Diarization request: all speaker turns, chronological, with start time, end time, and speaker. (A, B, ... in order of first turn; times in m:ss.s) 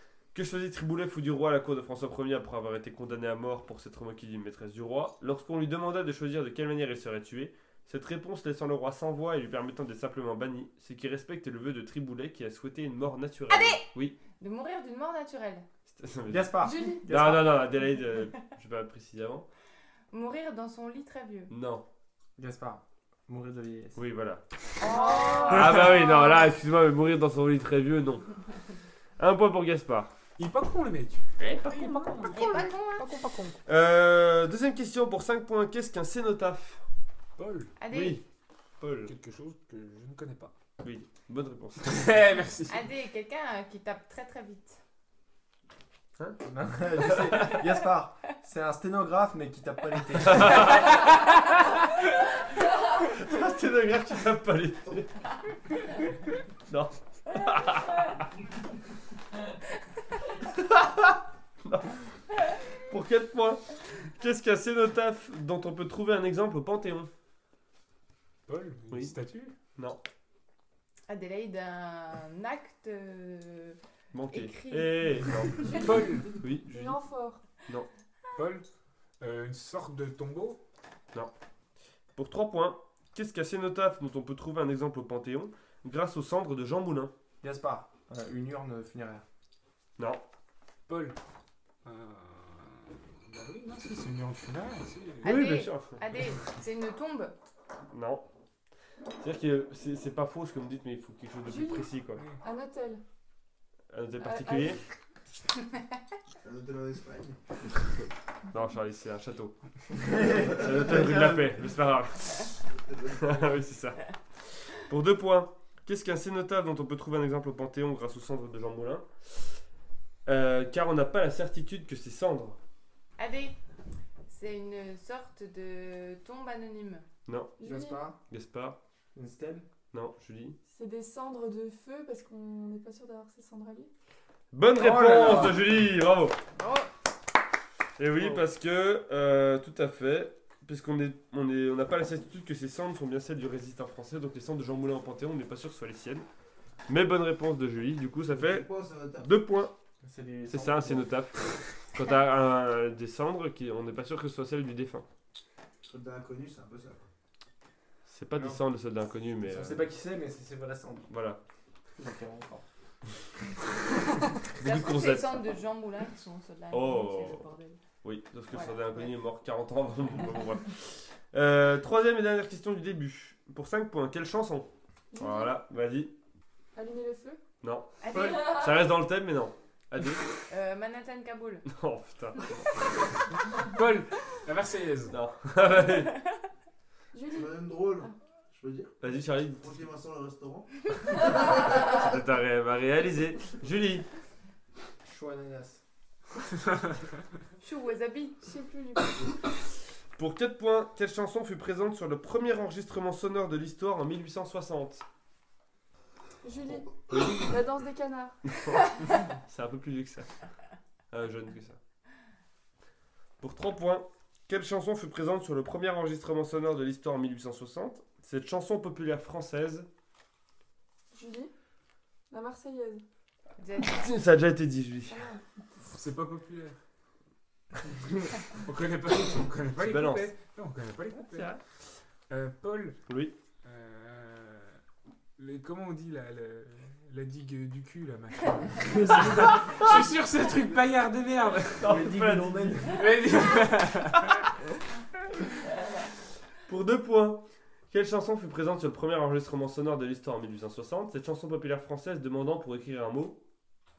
0:00.3-0:14.2 A
0:13.5-0:15.6 B
0:15.9-0:19.5 A
0:16.3-0:17.6 C
0:16.6-0:17.1 D
0:20.1-0:21.5 B
0:21.5-0:21.8 A
0:22.4-0:24.0 C
0:24.0-0:24.4 A
0:24.8-0:26.5 B
0:24.8-0:25.9 D
0:25.5-0:28.3 A
0:29.2-0:30.1 A
0:30.4-0:33.6 E
0:31.4-0:32.6 A
0:32.3-0:33.1 B
0:33.6-0:36.8 A
0:37.4-0:37.7 E
0:37.8-0:38.2 B
0:37.9-0:38.2 A
0:38.8-0:39.1 A
0:39.1-0:40.5 E
0:40.8-0:42.1 A
0:41.8-0:42.8 E
0:42.7-0:44.8 B
0:46.4-0:50.7 C
0:46.9-0:47.8 A
0:50.2-0:50.9 A
0:53.0-0:55.1 A
0:56.7-0:58.1 A
1:00.7-1:01.1 A
1:01.6-1:02.0 A
1:02.8-1:03.6 A
1:04.2-1:07.1 A
1:08.5-1:09.5 E
1:09.8-1:10.0 A
1:11.1-1:13.8 B
1:14.1-1:15.7 A
1:14.3-1:15.7 B
1:15.7-1:16.4 E
1:15.7-1:17.4 D
1:16.4-1:17.0 A
1:18.4-1:18.6 E
1:19.2-1:20.6 E
1:22.2-1:27.1 A
1:27.4-1:29.2 C
1:30.0-1:30.2 A
1:30.9-1:31.2 E
1:31.8-1:35.4 E
1:35.2-1:36.0 A
1:35.2-1:37.3 B
1:37.9-1:38.2 A
1:39.2-1:42.2 A
1:41.4-1:43.0 D
1:43.9-1:44.8 A
1:44.2-1:44.8 D
1:46.4-1:47.4 F
1:48.5-1:49.5 A
1:50.0-1:51.5 C
1:50.3-1:52.6 A
1:52.7-1:53.4 F
1:53.1-1:54.0 A
1:54.7-1:59.1 A
2:00.2-2:02.6 A
2:03.2-2:03.6 B
2:04.3-2:07.0 B
2:07.3-2:07.5 A
2:07.6-2:08.0 D
2:07.6-2:08.2 C
2:08.3-2:08.8 A
2:09.1-2:09.6 C
2:09.9-2:10.6 A
2:10.7-2:13.9 D
2:14.5-2:16.4 A
2:14.8-2:15.7 C
2:16.6-2:16.8 B
2:18.0-2:26.2 A
2:26.9-2:28.7 A
2:28.3-2:29.3 F
2:29.2-2:29.7 A
2:30.0-2:31.1 C
2:30.5-2:35.0 A
2:35.9-2:37.0 F
2:38.1-2:39.9 A
2:39.4-2:41.1 C
2:41.1-2:41.4 A
2:42.0-2:42.6 C
2:44.5-2:45.4 A
2:44.6-2:47.8 B
2:46.7-2:47.4 A
2:48.0-2:56.1 A
2:48.5-2:49.1 B
2:55.1-2:55.5 D
2:56.7-2:57.4 D
2:57.6-3:00.3 A
2:58.0-2:58.8 B
3:00.5-3:01.7 B
3:01.7-3:02.7 A
3:03.5-3:05.1 E
3:05.1-3:06.1 A
3:07.1-3:08.1 D
3:07.3-3:09.0 F
3:09.0-3:09.8 A
3:09.6-3:12.0 F
3:11.7-3:14.0 A
3:15.0-3:15.8 C
3:17.6-3:18.4 B
3:18.4-3:19.4 D
3:20.2-3:25.0 A
3:26.4-3:29.1 D
3:29.4-3:30.3 A
3:31.1-3:31.8 A
3:33.4-3:39.9 A
3:41.1-3:41.5 D
3:42.3-3:43.0 D
3:43.6-3:44.0 B
3:43.8-3:45.2 A
3:45.1-3:45.4 D
3:45.8-3:46.8 E
3:48.6-3:51.5 E
3:49.8-3:50.3 A
3:51.3-3:51.6 A
3:52.3-3:53.0 E
3:53.1-3:53.3 A
3:53.6-3:54.8 E
3:55.4-4:01.9 E
3:58.8-3:59.9 C
3:59.1-4:00.0 A
4:01.8-4:02.8 A
4:01.8-4:03.1 C
4:03.0-4:04.4 E
4:06.6-4:13.4 A